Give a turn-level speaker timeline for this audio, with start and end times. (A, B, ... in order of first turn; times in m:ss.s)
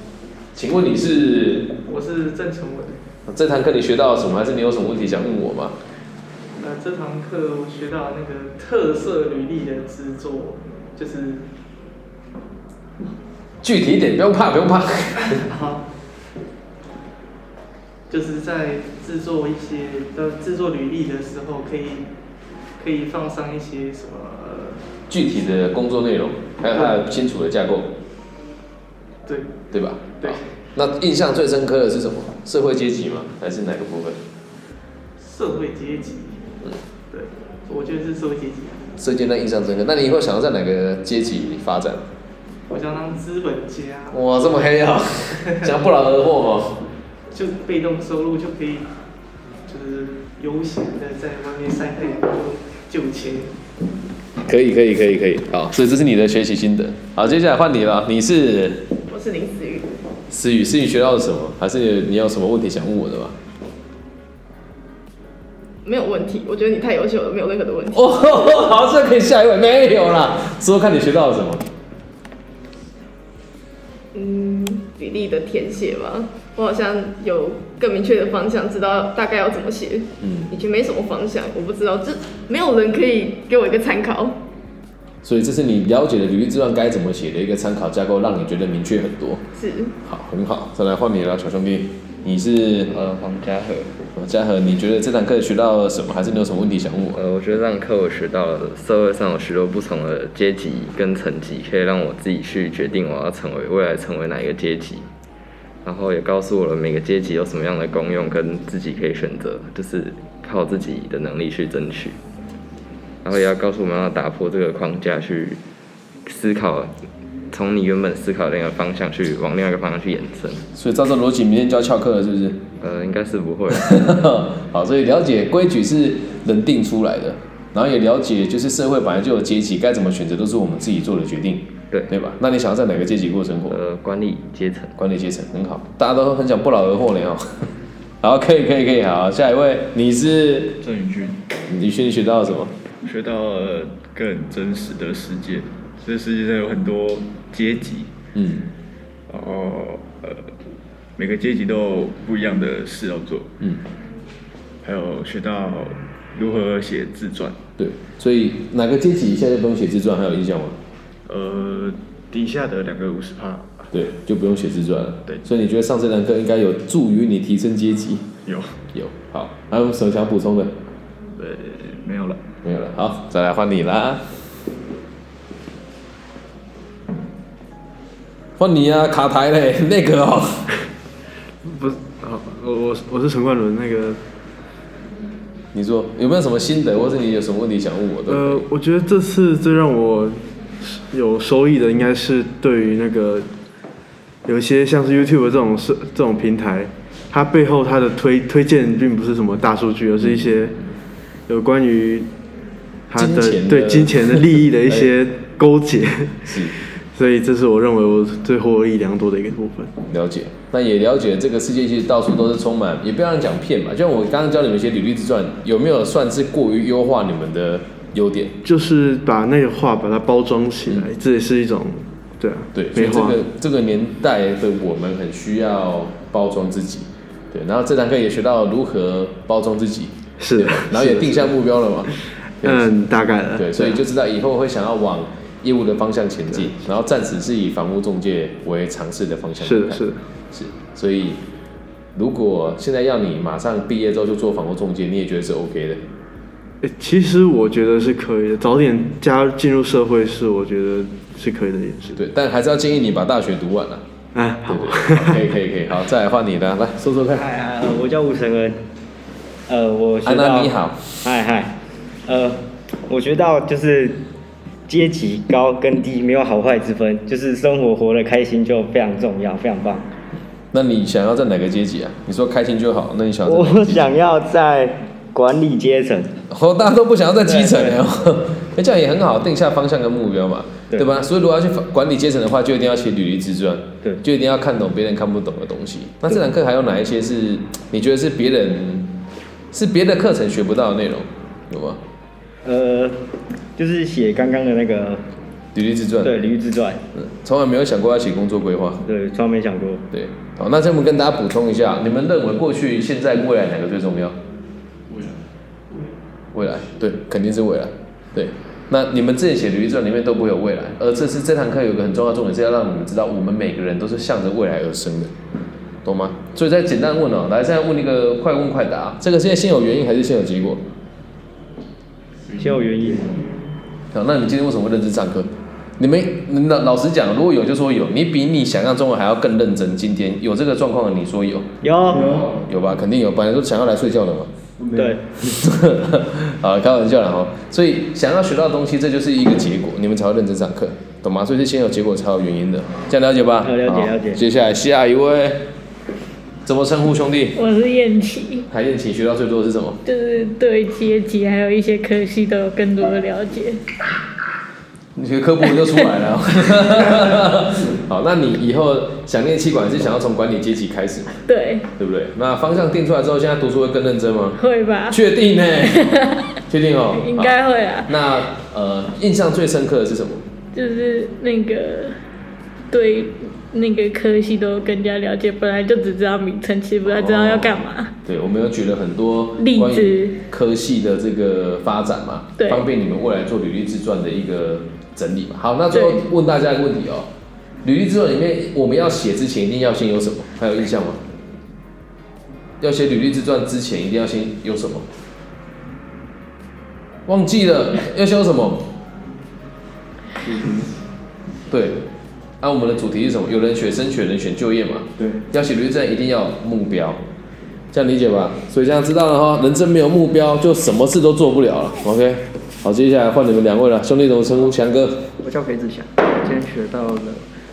0:00.6-0:01.7 A
0:01.9-0:03.0 B
0:03.3-0:05.8 A
0:06.6-0:11.5 B
0:13.6-0:15.4 A
0:15.3-0:15.8 B
0:18.1-0:22.1 B
0:22.8-0:24.8 B
0:25.1-0:27.9 A
0:26.7-0:27.0 B
0:29.3-0:29.5 B
0:29.7-0:34.2 A
0:30.2-0:30.4 B
0:35.2-0:36.4 B
0:37.1-0:38.8 B
0:39.0-0:42.0 A
0:42.7-0:44.2 B
0:44.1-0:46.8 A
0:47.3-0:48.9 B
0:49.7-0:53.5 B
0:54.5-0:58.8 A
0:59.1-0:59.8 C
0:59.2-0:59.8 D
1:00.3-1:03.4 A
1:05.8-1:07.8 C
1:06.6-1:08.6 D
1:07.9-1:11.6 A
1:14.2-1:19.7 C
1:14.7-1:20.1 D
1:20.2-1:20.5 A
1:20.5-1:21.9 C
1:20.6-1:24.4 D
1:22.5-1:22.8 C
1:23.4-1:23.7 C
1:25.2-1:29.4 A
1:29.6-1:29.9 D
1:30.0-1:33.0 A
1:32.9-1:33.9 E
1:34.2-1:37.2 A
1:37.1-1:45.1 E
1:45.8-1:52.2 E
1:53.2-1:55.6 E
1:56.2-1:56.9 E
1:57.5-2:00.6 E
2:00.7-2:02.6 A
2:02.8-2:04.2 E
2:03.7-2:13.8 A
2:13.7-2:15.0 E
2:15.0-2:17.7 A
2:18.2-2:20.8 A
2:20.8-2:21.4 F
2:21.7-2:22.8 A
2:23.0-2:28.1 F
2:28.4-2:28.6 A
2:29.3-2:30.4 F
2:31.2-2:33.5 F
2:34.8-2:37.6 F
2:37.8-2:40.8 A
2:41.3-2:43.8 F
2:43.9-2:48.3 A
2:48.9-2:50.8 A
2:51.4-2:52.4 F
2:52.6-2:54.2 A
2:58.6-3:00.7 A
3:01.7-3:04.2 G
3:05.7-3:08.6 A
3:08.3-3:13.5 G
3:14.5-3:20.8 G
3:21.5-3:22.3 G
3:23.1-3:29.9 G
3:23.2-3:25.1 A
3:26.4-3:26.7 A
3:30.1-3:38.5 A
3:38.6-3:43.4 G
3:42.7-3:52.1 A
3:50.4-3:51.5 G
3:52.6-3:52.9 A
3:52.6-3:54.0 G
3:53.6-4:01.4 A
3:59.6-4:00.2 G
4:02.2-4:06.0 A
4:06.8-4:12.2 G
4:12.2-4:14.0 A
4:14.4-4:15.4 G
4:14.7-4:17.5 A
4:17.4-4:18.8 H
4:19.7-4:20.7 H
4:20.2-4:21.2 A
4:21.2-4:21.8 H
4:22.3-4:24.2 H
4:24.9-4:30.1 H
4:30.7-4:34.2 A
4:33.5-4:36.3 H
4:36.5-4:49.1 A
4:37.4-4:38.0 H
4:49.7-4:52.0 A
4:52.6-4:53.2 H
4:53.8-4:55.2 H
4:55.8-4:56.5 A
4:56.2-4:57.0 H
4:57.2-4:59.0 A
4:59.0-5:00.0 H
5:00.1-5:04.4 A
5:06.5-5:15.3 A
5:16.0-5:20.8 A
5:22.6-5:23.5 H
5:24.1-5:31.7 A
5:31.8-5:32.5 H
5:32.6-5:34.5 A
5:35.0-5:35.2 H
5:35.5-5:45.6 A
5:43.6-5:44.4 H
5:46.6-5:47.6 A
5:47.6-5:48.6 C
5:48.7-5:50.0 A
5:50.0-5:53.8 C
5:55.2-6:01.3 A
6:01.4-6:01.9 C
6:02.0-6:04.6 A
6:04.6-6:05.2 C
6:05.1-6:10.4 A
6:06.0-6:06.4 C
6:07.1-6:08.2 C
6:10.7-6:12.2 C
6:12.9-6:18.1 C
6:17.0-6:27.3 A
6:19.6-6:20.4 C
6:22.6-6:22.8 C
6:25.9-6:26.2 C
6:27.8-6:31.2 A
6:32.8-6:35.1 A
6:37.3-6:38.8 A
6:41.7-6:42.0 A
6:42.6-6:47.2 A
6:47.9-6:55.3 A
6:55.4-6:57.4 I